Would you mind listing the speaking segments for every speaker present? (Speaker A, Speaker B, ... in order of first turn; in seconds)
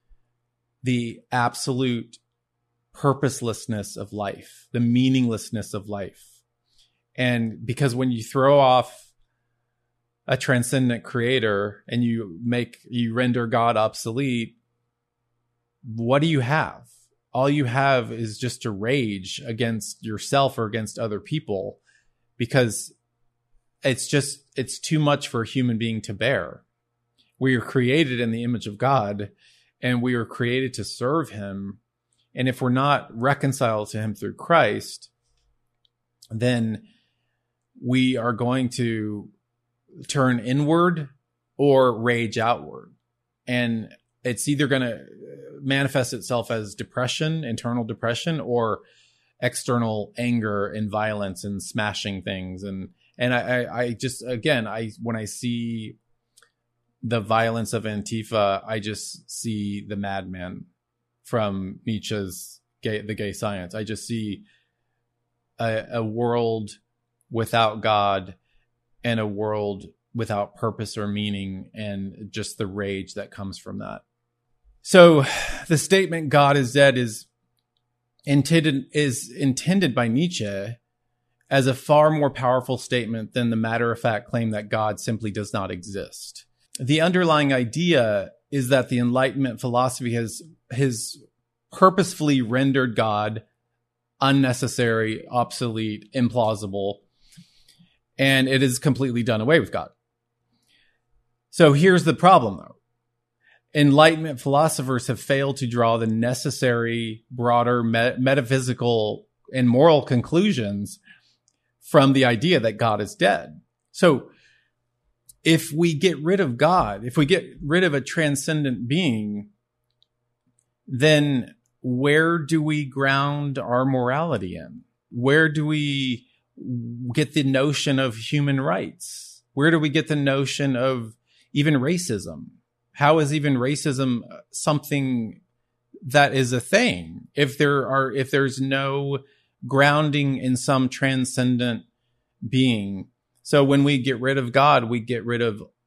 Speaker A: 0.8-2.2, 2.9-6.2, 7.2-9.1, 10.3-14.6, 15.8-21.8, 22.4-22.9, 23.8-26.6, 27.4-31.8, 32.3-35.1, 36.3-36.8, 37.8-39.3, 40.1-42.9, 43.5-48.8, 49.4-56.0, 57.0-60.7, 61.2-64.4, 65.6-66.8, 67.3-68.4, 69.0-74.0, 74.8-77.3, 78.3-80.8, 81.5-91.2, 91.7-93.4, 94.2-97.0, 98.2-99.9, 101.5-102.7, 103.7-111.0, 111.8-114.3, 115.4-119.5, 120.9-135.4, 136.0-141.8, 142.5-145.6